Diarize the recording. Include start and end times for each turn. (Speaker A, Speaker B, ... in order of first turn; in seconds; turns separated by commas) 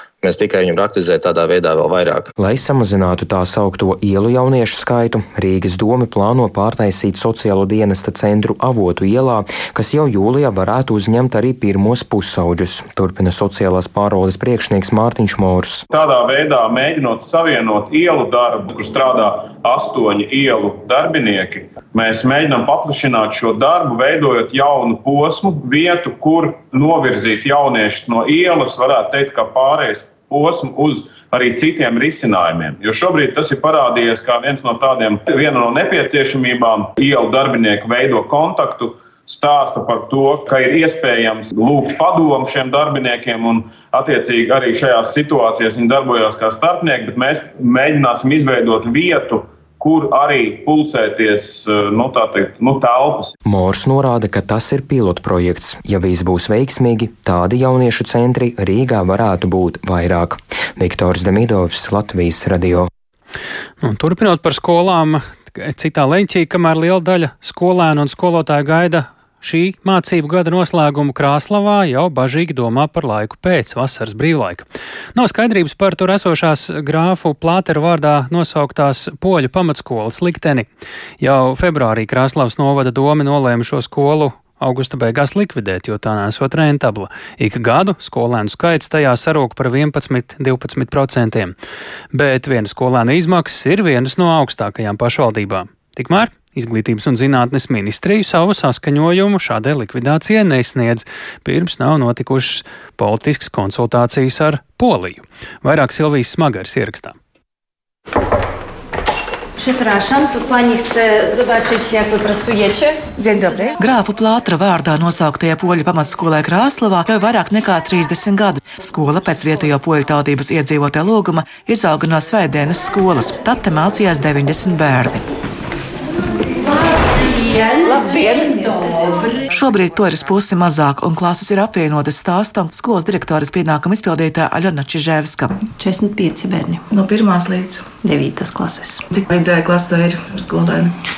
Speaker A: 0.2-2.3, Speaker B: 2.4-15.8, Speaker C: 15.9-53.3, Speaker B: 53.4-62.9, Speaker D: 63.8-80.7, Speaker D: 81.2-91.5, Speaker D: 92.1-107.2, Speaker E: 109.6-113.7, Speaker F: 113.4-125.2, Speaker E: 126.7-129.4, Speaker F: 129.6-135.7, Speaker G: 135.8-136.8, Speaker F: 137.0-137.8, Speaker G: 138.0-139.0, Speaker F: 139.1-140.9